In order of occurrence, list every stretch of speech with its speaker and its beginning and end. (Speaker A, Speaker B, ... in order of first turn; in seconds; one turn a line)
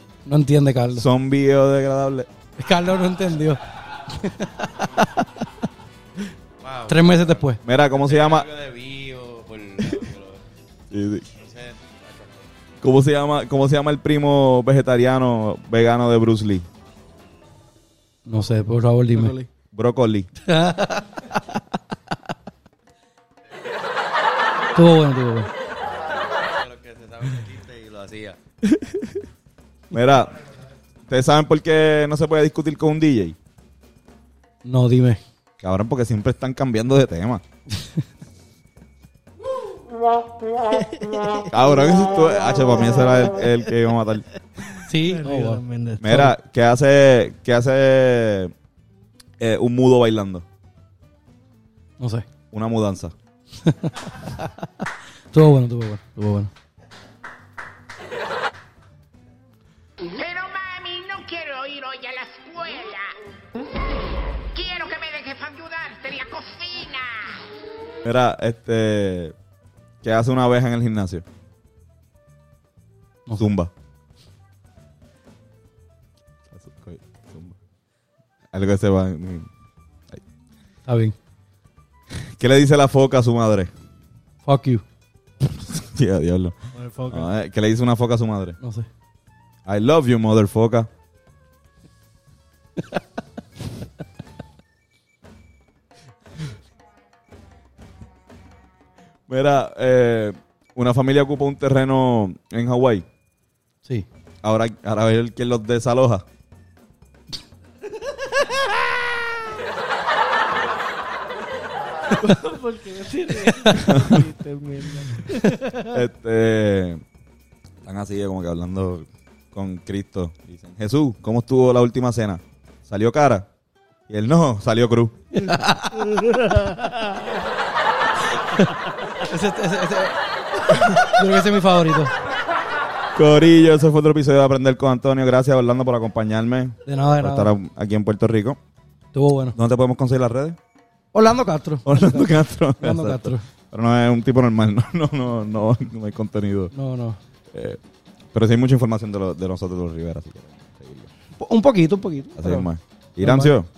Speaker A: 0.2-1.1
Speaker B: 0.9-2.3
Speaker A: 2.6-5.3
Speaker C: 6.6-7.3
Speaker A: 6.8-7.6
Speaker B: 7.6-8.6
Speaker C: 8.0-10.2
Speaker B: 10.9-11.3
Speaker C: 11.5-12.0
Speaker B: 12.8-16.6
Speaker A: 18.2-19.4
Speaker D: 19.2-19.5
Speaker B: 19.7-20.3
Speaker A: 20.4-21.4
Speaker A: 24.7-25.5
Speaker C: 26.4-28.4
Speaker B: 29.9-30.4
Speaker B: 31.1-33.4
Speaker A: 34.6-35.2
Speaker B: 35.6-37.4
Speaker D: 41.0-41.4
Speaker B: 41.5-44.3
Speaker A: 44.8-46.3
Speaker D: 45.0-46.2
Speaker B: 46.0-48.5
Speaker B: 49.4-50.5
Speaker A: 52.0-52.3
Speaker B: 52.5-53.1
Speaker A: 53.6-54.6
Speaker A: 55.3-56.5
Speaker E: 60.1-63.1
Speaker E: 64.5-67.4
Speaker B: 68.0-69.3
Speaker B: 70.0-71.2
Speaker B: 73.3-73.7
Speaker B: 76.5-77.6
Speaker B: 78.5-79.5
Speaker A: 80.8-81.1
Speaker B: 82.4-83.7
Speaker A: 84.4-84.8
Speaker B: 85.6-86.5
Speaker D: 86.7-87.3
Speaker B: 87.1-88.6
Speaker A: 88.6-88.9
Speaker B: 89.7-90.9
Speaker B: 99.3-103.0
Speaker B: 104.4-106.2
Speaker D: 112.1-115.9
Speaker B: 115.9-117.0
Speaker B: 117.8-123.5
Speaker B: 124.1-125.6
Speaker D: 125.9-127.3
Speaker A: 129.2-132.1
Speaker B: 133.2-138.6
Speaker A: 136.8-137.5
Speaker A: 139.1-139.6
Speaker B: 139.5-140.6
Speaker A: 141.1-143.4
Speaker B: 141.8-146.7
Speaker A: 146.7-147.2
Speaker B: 147.5-147.8
Speaker B: 148.3-151.1
Speaker A: 151.4-152.7
Speaker B: 152.4-153.7
Speaker A: 153.2-153.5